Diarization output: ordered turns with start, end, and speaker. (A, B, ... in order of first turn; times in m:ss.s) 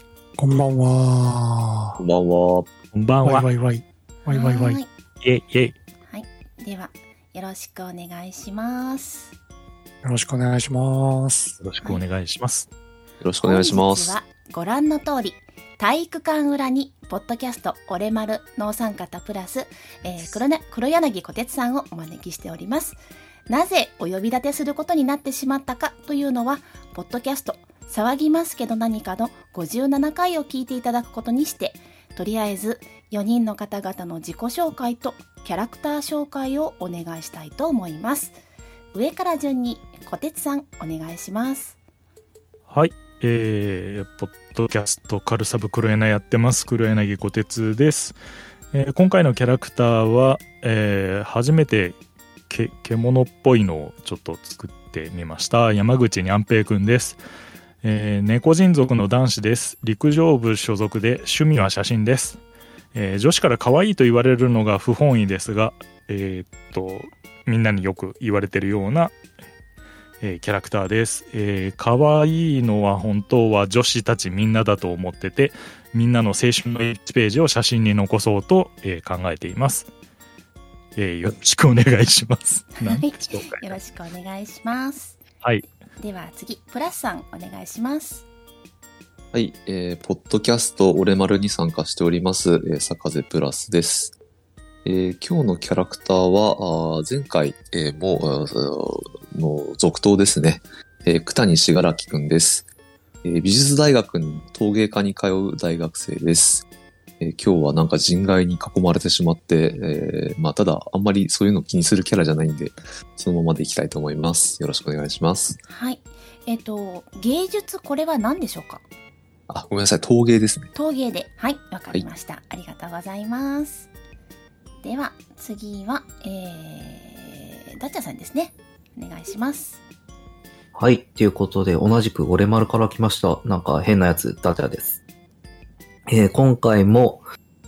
0:00.4-0:02.0 A
0:02.0-0:02.7 B
0:02.9-0:03.5 C
0:03.2-0:04.8 A
0:04.2-0:04.9 D
0:05.2-0:05.7 C
0:06.1-0:09.3 D
0:10.0-0:11.6 A
0:11.6-0:12.7 C
0:13.2-0:14.1 B
0:13.4-0:38.4 D
0:38.9-0:41.8 D
0:42.7-0:48.2 C
0:48.7-0:52.0 C
0:52.5-0:57.2 C
0:57.8-1:02.4 C
1:02.9-1:09.1 C
1:10.2-1:19.9 C
1:21.0-1:23.6 C
1:22.8-1:25.2 D
1:26.0-1:28.2 D
1:29.3-1:34.1 B
1:34.8-1:42.6 B
1:43.2-1:46.6 B
1:47.2-1:55.6 B
1:55.7-1:58.8 D
1:59.5-2:00.7 B
2:00.7-2:03.9 D
2:04.8-2:09.8 D
2:10.7-2:15.0 E
2:16.1-2:17.2 E